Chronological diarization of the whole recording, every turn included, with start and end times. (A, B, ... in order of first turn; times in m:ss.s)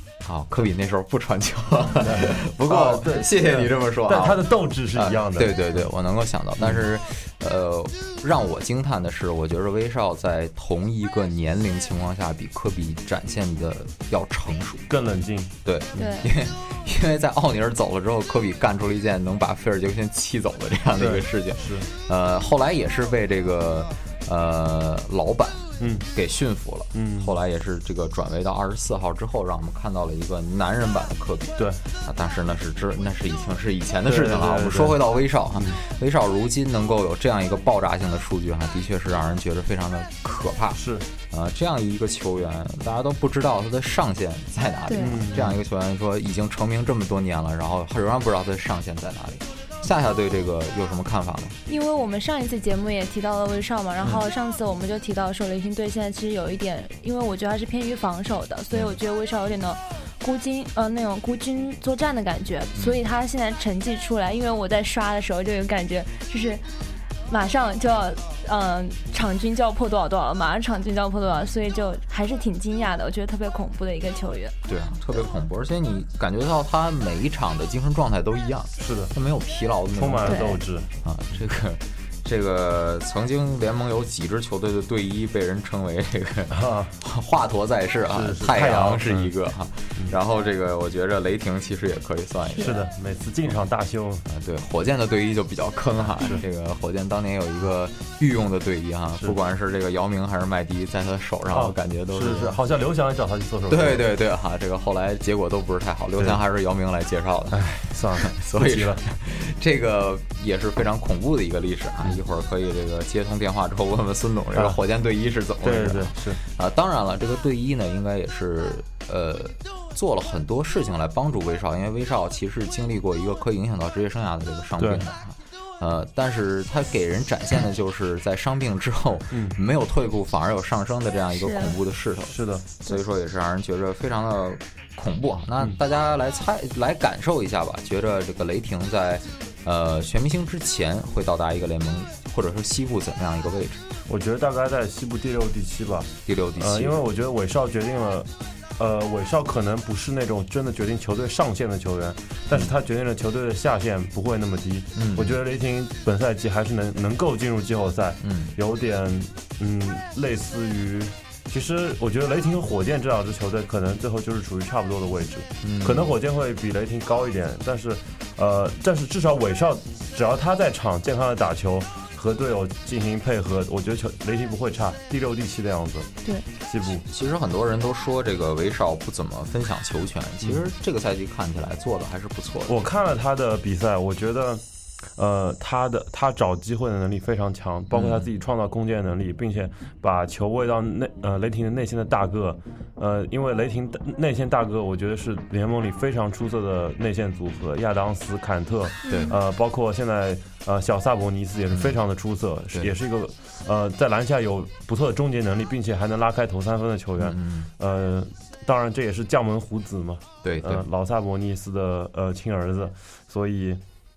0:00.2-0:14.9 A
0:02.0-0:05.7 B
0:06.6-0:06.8 B
0:14.9-0:16.1 B
0:15.6-0:51.6 A
0:16.0-0:16.3 C
0:20.9-0:21.9 B
0:25.8-0:26.1 B
0:26.9-0:27.3 B
0:34.0-0:35.0 B
0:35.5-0:35.8 B
0:40.7-0:41.0 B
0:44.9-0:45.2 C
0:45.0-0:45.6 B
0:51.7-1:06.6 C
1:07.3-1:14.5 C
1:14.7-1:20.4 A
1:18.8-1:19.1 B
1:19.9-1:20.9 B
1:20.2-1:20.6 C
1:21.0-1:32.8 A
1:26.5-1:26.9 B
1:28.1-1:29.3 B
1:32.6-1:34.2 B
1:34.3-1:42.5 A
1:41.5-1:44.1 B
1:43.7-1:47.7 A
1:47.5-1:49.0 B
1:48.2-2:23.8 A
1:55.6-1:56.4 B
2:04.8-2:05.0 B
2:09.3-2:09.6 B
2:11.3-2:11.8 C
2:12.3-2:12.6 B
2:24.1-2:56.1 B
2:26.2-2:27.0 A
2:34.9-2:35.4 A
2:38.2-2:38.5 A
2:45.6-2:46.1 A
2:56.6-2:57.0 B
2:57.0-3:02.8 A
3:02.7-3:04.6 B
3:05.2-3:33.8 B
3:07.9-3:08.3 A
3:19.0-3:19.4 C
3:19.1-3:19.3 A
3:21.7-3:22.0 A
3:27.2-3:27.7 A
3:30.4-3:30.8 A